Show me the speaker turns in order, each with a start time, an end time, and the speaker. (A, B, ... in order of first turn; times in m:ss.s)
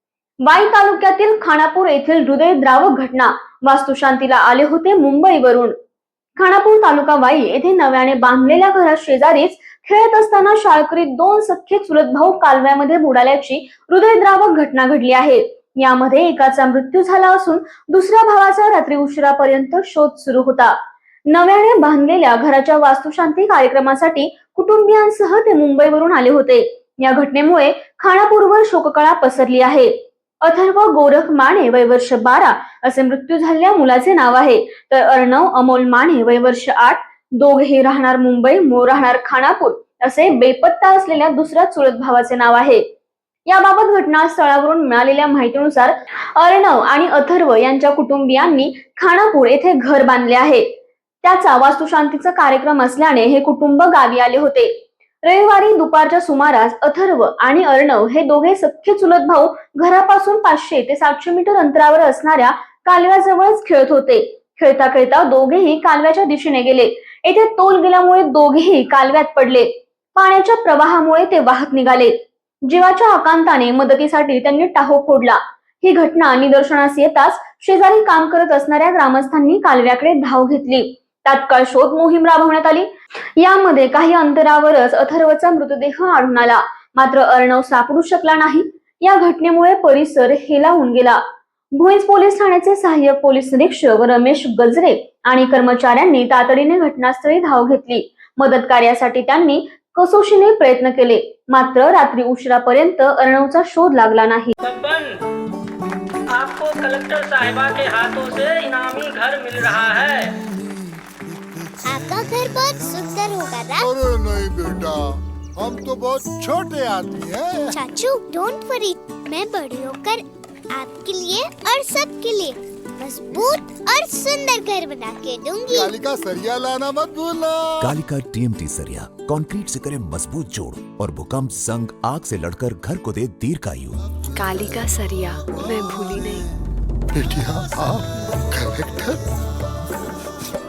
0:00.4-0:05.7 A
0:06.4-0:20.8 A
0:21.3-0:42.8 A
0:43.5-0:50.7 A
0:51.2-0:54.7 A
0:55.2-1:31.2 A
1:31.8-1:44.6 A
1:44.6-1:45.2 B
1:46.3-1:50.3 B
1:51.8-1:53.9 C
1:53.8-1:57.8 D
1:57.7-2:05.9 C
2:05.7-2:07.9 D
2:07.8-2:14.0 E
2:14.4-2:16.4 F
2:17.1-2:19.2 D